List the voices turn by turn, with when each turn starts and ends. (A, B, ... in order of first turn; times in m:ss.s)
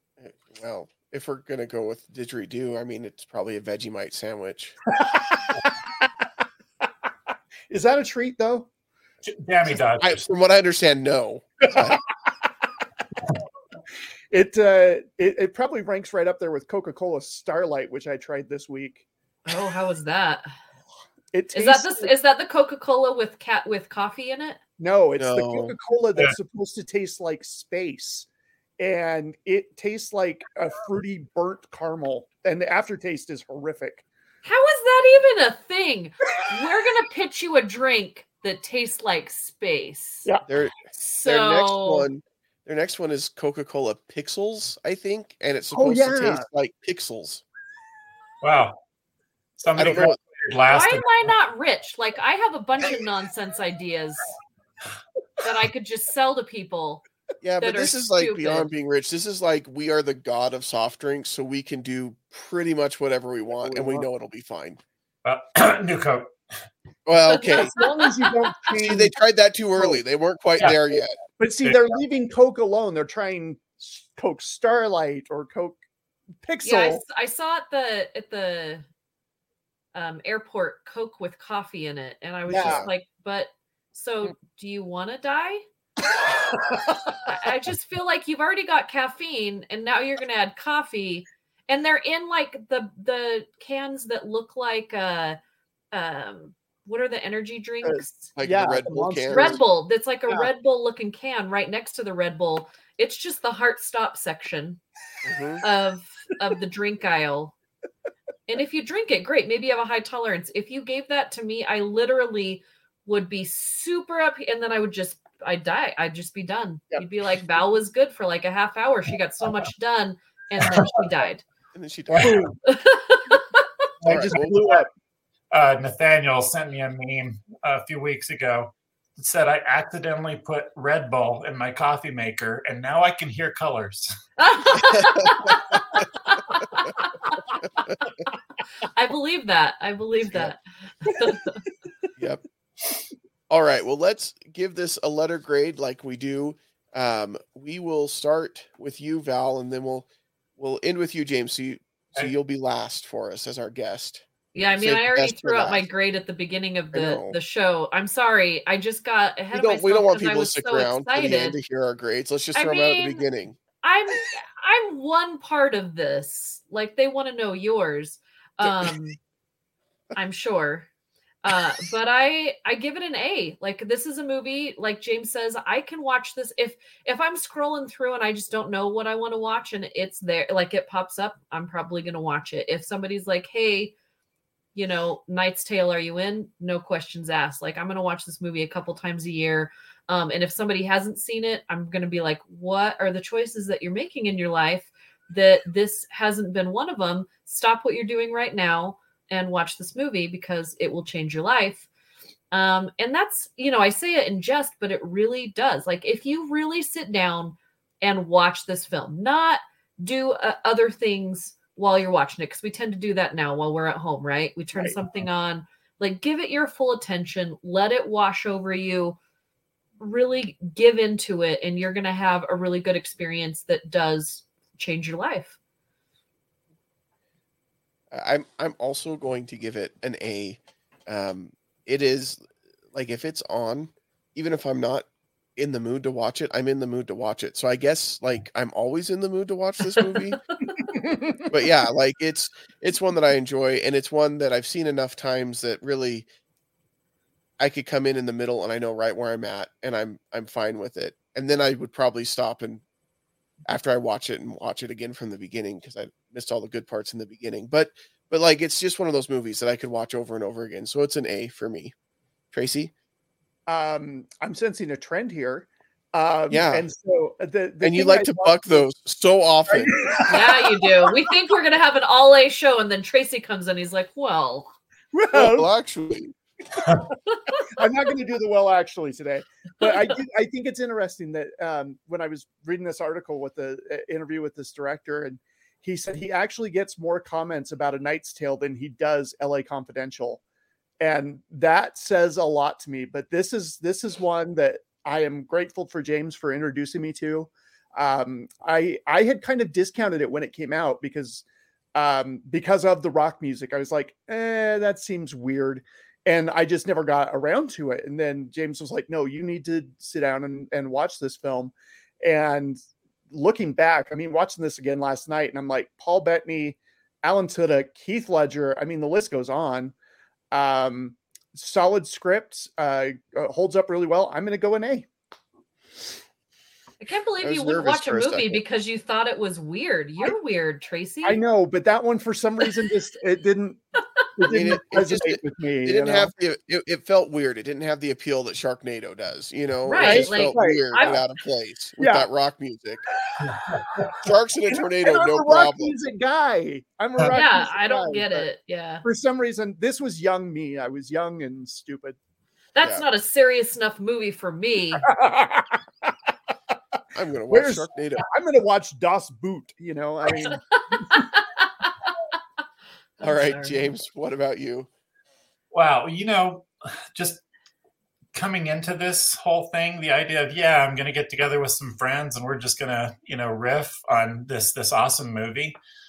0:00.2-0:04.8 A
0:05.0-0:05.7 B
0:07.7-0:08.7 B
0:09.2-0:10.2 C
0:10.0-0:12.0 A
0:14.3-0:19.0 B
0:19.5-0:20.5 D
0:21.3-0:22.1 B
0:21.5-0:24.6 D
0:24.8-0:28.3 B
0:25.2-0:25.8 A
0:28.8-0:34.0 B
0:34.4-0:40.3 D
0:40.5-0:47.4 A
0:40.9-0:42.1 D
0:45.7-0:46.4 B
0:48.4-0:48.8 C
0:49.6-0:51.3 C
0:49.8-0:50.2 A
0:50.7-0:54.4 D
0:55.4-0:57.0 D
0:57.4-1:04.8 A
0:57.6-0:58.7 D
1:03.6-1:04.1 B
1:05.2-1:06.3 C
1:07.1-1:07.7 A
1:07.4-1:08.1 D
1:07.4-1:09.2 B
1:08.8-1:11.2 A
1:09.8-1:10.0 B
1:10.6-1:15.8 B
1:16.4-1:17.0 B
1:16.6-1:18.9 D
1:19.9-1:25.6 D
1:22.5-1:22.9 B
1:27.2-1:35.4 D
1:35.9-1:38.3 D
1:37.8-1:39.6 B
1:38.4-1:39.6 A
1:39.3-1:44.8 D
1:45.2-1:45.6 A
1:45.6-1:47.6 D
1:48.5-2:01.4 D
2:01.7-2:02.5 A
2:02.1-2:02.5 C
2:02.2-2:02.5 B
2:02.6-2:03.6 D
2:04.0-2:04.8 C
2:04.0-2:04.6 A
2:04.1-2:04.9 B
2:05.5-2:14.1 C
2:14.4-2:17.4 D
2:14.9-2:15.3 A
2:18.8-2:21.6 D
2:22.2-2:22.4 A
2:23.5-2:34.3 A
2:34.6-2:41.6 D
2:34.8-2:35.9 A
2:36.9-2:37.4 A
2:39.5-2:43.6 A
2:42.6-2:43.2 D
2:43.8-2:49.2 D
2:50.2-2:50.9 D
2:51.4-3:03.9 D
3:04.8-3:21.9 D
3:22.5-3:39.2 D
3:40.0-3:45.6 D
3:48.1-3:52.4 A
3:52.9-4:00.4 A
4:00.8-4:01.5 B
4:01.5-4:06.3 A
4:07.6-4:12.8 A
4:13.7-4:21.9 A
4:22.5-4:22.9 A
4:23.7-4:28.9 B
4:26.5-4:26.8 A
4:27.8-4:29.9 A
4:29.7-4:31.1 B
4:30.3-4:34.7 D
4:35.1-4:35.7 B
4:35.3-4:36.3 A
4:37.6-4:50.4 B
4:51.0-5:01.4 B
5:02.0-5:12.8 B
5:13.3-5:19.9 B
5:20.5-5:25.1 B
5:27.0-5:31.4 D
5:27.4-5:28.6 A
5:31.2-5:33.8 B
5:34.4-5:36.3 B
5:34.4-5:43.0 A
5:39.8-5:41.2 D
5:40.0-5:41.2 B
5:42.0-5:42.3 B
5:43.5-5:43.8 C
5:44.2-5:46.0 A
5:45.0-5:48.5 B
5:47.3-5:49.0 D
5:49.0-5:52.2 B
5:52.7-5:55.1 D
5:55.0-5:56.1 B
5:57.1-5:58.2 A
5:57.5-6:01.2 B
6:00.4-6:02.1 D
6:03.2-6:03.9 D
6:03.2-6:04.9 A
6:05.7-6:07.4 C
6:08.3-6:15.8 C